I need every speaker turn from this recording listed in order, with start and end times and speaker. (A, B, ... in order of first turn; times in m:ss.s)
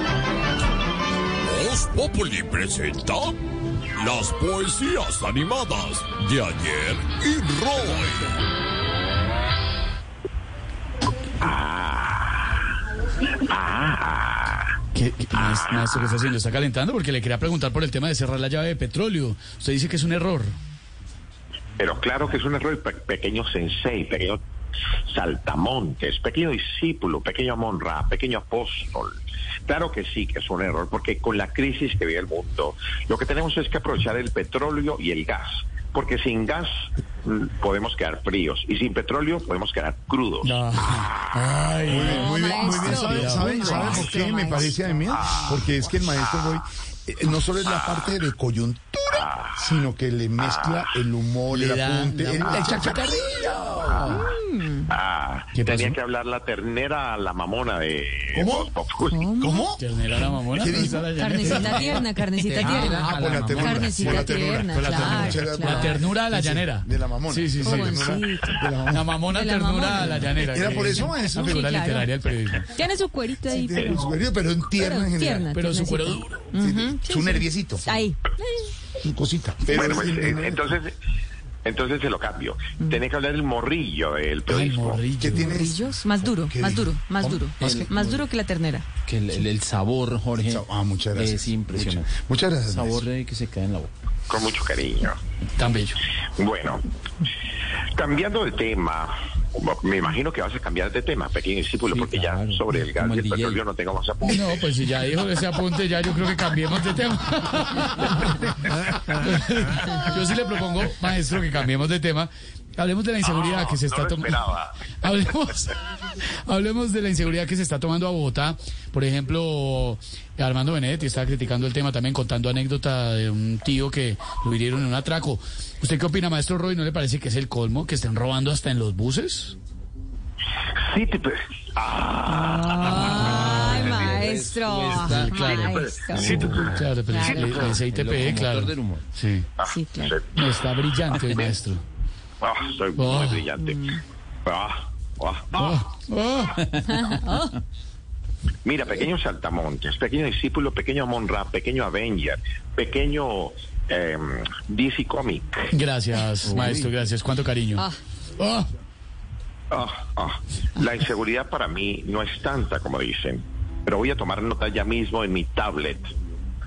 0:01.4-0:03.4 A
0:04.0-0:08.3 A
0:11.4-0:12.8 B
0:13.4-0:14.8 B
0:14.9-0:20.6 C
0:15.3-0:16.2 B
0:21.8-0:24.4 B
0:25.1-0:29.2 B
0:29.7-0:36.7 B
0:37.2-0:41.7 B
0:40.4-0:44.2 C
0:41.9-0:53.9 D
0:42.1-0:45.1 E
0:45.1-0:46.6 B
0:47.6-0:48.2 B
0:49.1-0:49.8 B
0:50.4-0:50.9 B
0:51.5-0:54.3 C
0:53.8-0:54.3 B
0:54.1-0:54.9 E
0:54.9-0:59.2 B
0:55.6-0:56.0 C
0:58.3-0:59.8 D
0:59.1-0:59.7 E
0:59.7-1:02.1 C
1:00.5-1:02.0 D
1:01.1-1:06.1 E
1:02.5-1:09.2 D
1:02.6-1:03.7 F
1:02.9-1:08.2 C
1:07.6-1:08.7 E
1:08.9-1:12.7 C
1:09.3-1:12.1 E
1:10.1-1:11.8 D
1:12.7-1:14.2 E
1:13.5-1:15.5 D
1:13.8-1:14.1 B
1:14.8-1:18.7 E
1:15.5-1:16.5 C
1:16.5-1:17.9 D
1:19.0-1:20.6 D
1:19.7-1:20.9 B
1:21.6-1:25.0 B
1:24.5-1:25.6 C
1:25.2-1:27.8 D
1:25.4-1:28.9 E
1:27.6-1:28.2 F
1:29.0-1:33.9 F
1:30.4-1:33.1 D
1:34.3-1:35.2 B
1:35.6-1:36.0 C
1:36.4-1:36.8 B
1:37.9-1:44.7 B
1:41.8-1:43.6 F
1:44.3-1:54.4 C
1:53.2-1:54.9 B
1:55.0-2:09.5 C
2:10.8-2:14.2 B
2:12.3-2:17.6 E
2:12.8-2:15.5 F
2:13.0-2:14.1 C
2:15.2-2:19.5 C
2:15.6-2:17.8 B
2:17.7-2:19.1 F
2:19.6-2:20.2 B
2:19.6-2:20.2 E
2:20.3-2:21.8 C
2:22.4-2:25.8 B
2:23.0-2:23.5 C
2:23.6-2:24.0 E
2:25.6-2:27.1 C
2:26.9-2:27.6 E
2:28.6-2:35.7 B
2:35.7-2:37.9 C
2:36.4-2:36.9 F
2:38.4-2:38.7 C
2:39.7-2:46.1 B